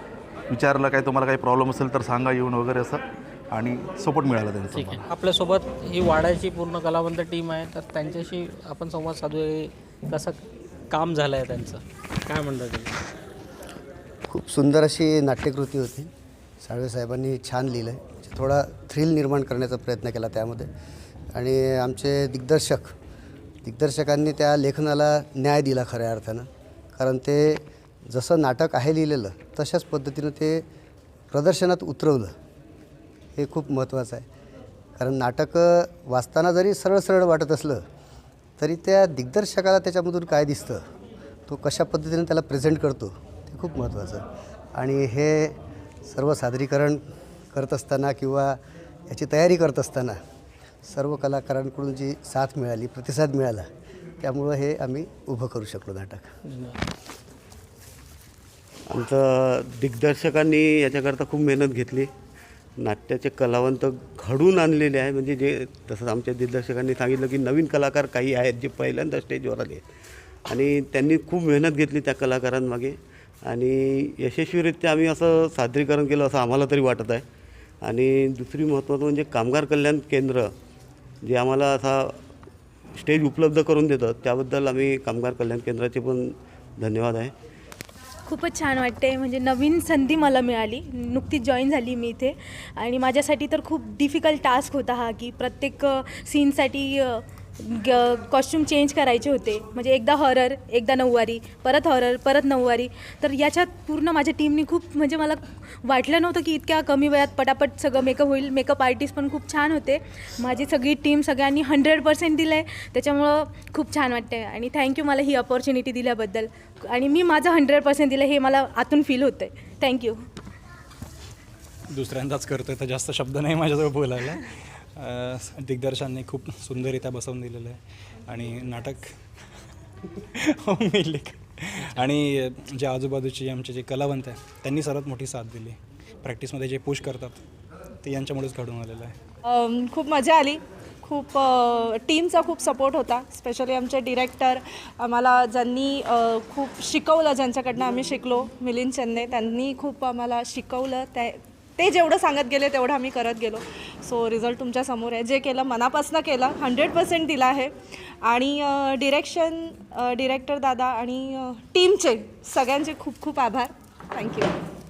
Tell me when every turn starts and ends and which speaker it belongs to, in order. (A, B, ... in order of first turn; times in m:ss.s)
0:00.5-0:05.1 A
0:04.7-0:10.4 B
0:10.9-0:12.9 B
0:14.3-0:16.1 C
0:16.6-0:20.7 C
0:21.3-0:22.9 C
0:23.6-0:30.6 C
0:31.3-0:32.3 C
0:33.4-0:34.2 C
0:35.0-0:37.8 C
0:38.6-0:40.8 C
0:41.5-0:44.2 C
0:44.8-0:45.5 C
0:46.0-0:47.0 C
0:47.5-0:48.6 C
0:49.1-0:50.2 C
0:50.8-0:53.7 C
0:54.2-0:56.3 C
0:56.5-0:56.8 B
0:58.9-1:02.1 D
1:02.8-1:09.9 D
1:10.4-1:17.2 D
1:17.8-1:20.5 D
1:21.2-1:22.2 D
1:22.9-1:27.3 D
1:28.2-2:00.2 E
2:01.9-2:09.2 F
2:10.3-2:17.4 F
2:18.0-2:19.2 F
2:19.5-2:37.7 G
2:38.2-2:44.6 G